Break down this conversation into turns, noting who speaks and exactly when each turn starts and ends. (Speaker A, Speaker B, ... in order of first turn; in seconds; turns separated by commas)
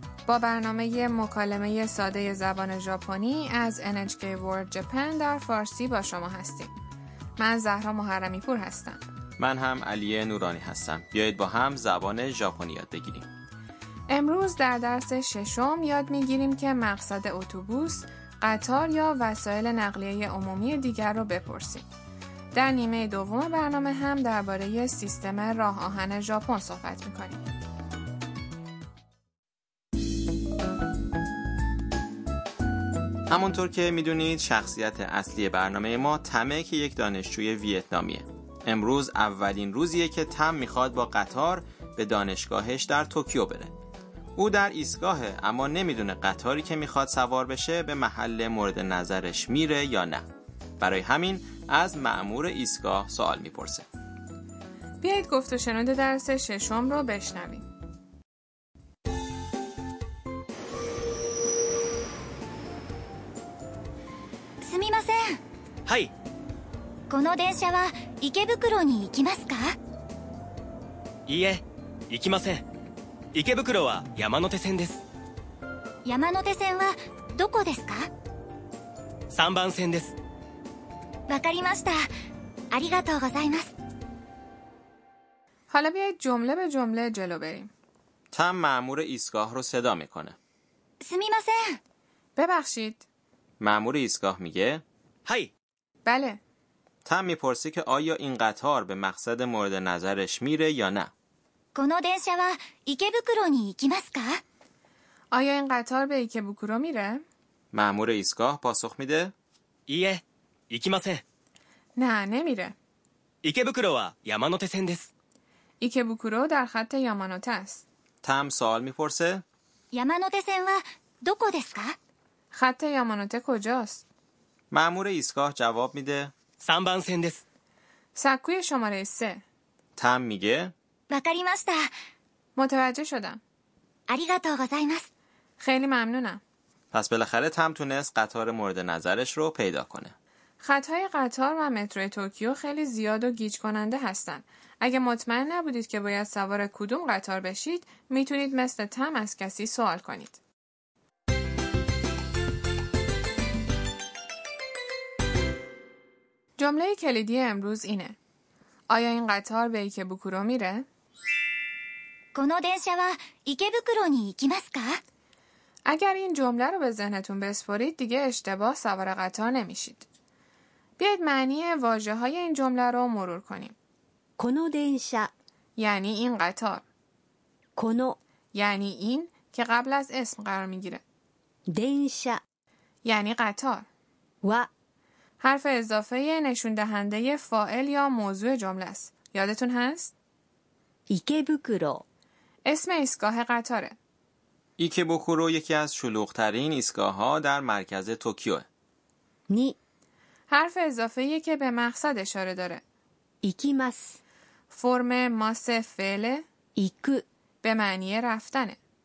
Speaker A: 0.2-6.7, Speaker A: 7.4-9.0, Speaker B: 9.4-13.3, Speaker A: 14.1-21.8, Speaker A: 22.5-27.4, Speaker B: 33.3-43.7, Speaker B: 44.4-50.2, Speaker B: 50.8-53.9, Speaker A: 55.0-57.6, Speaker C: 64.6-65.4, Speaker C: 67.1-69.7, Speaker D: 71.3-72.7, Speaker D: 73.3-75.0, Speaker C: 76.0-78.1, Speaker D: 79.3-80.2, Speaker C: 81.3-82.0, Speaker C: 82.7-83.7, Speaker A: 85.7-87.7, Speaker B: 88.3-90.3, Speaker C: 91.0-91.8, Speaker A: 92.3-93.0, Speaker B: 93.6-94.8, Speaker A: 96.0-96.4, Speaker B: 97.0-101.1, Speaker C: 101.7-104.4, Speaker A: 105.3-107.2, Speaker B: 107.7-109.3, Speaker D: 109.9-111.2, Speaker A: 112.0-112.7, Speaker D: 113.4-115.1, Speaker A: 115.8-117.8, Speaker B: 118.2-119.4, Speaker C: 119.9-122.0, Speaker A: 122.5-124.0, Speaker B: 124.7-126.3, Speaker D: 126.6-127.4, Speaker A: 128.2-129.4, Speaker B: 130.0-130.7, Speaker C: 131.1-131.8, Speaker A: 132.6-133.4, Speaker C: 134.1-135.1, Speaker A: 135.6-136.4, Speaker B: 136.9-140.1, Speaker A: 140.6-150.4, Speaker A: 156.6-158.2, Speaker A: 158.9-160.8, Speaker C: 162.3-165.0, Speaker A: 165.8-170.1, Speaker A: 171.0-173.7, Speaker E: 174.4-175.3, Speaker A: 175.8-176.8, Speaker E: 177.8-178.2, Speaker A: 178.5-181.0, Speaker E: 181.7-182.4, Speaker A: 183.0-183.8, Speaker E: 184.4-184.7, Speaker A: 185.4-190.1, Speaker E: 191.1-192.0, Speaker A: 192.7-193.9, Speaker B: 194.8-198.6, Speaker E: 199.5-199.8, Speaker A: 200.5-202.8, Speaker E: 203.4-204.2, Speaker A: 204.7-206.4, Speaker E: 206.8-207.2, Speaker A: 207.6-208.8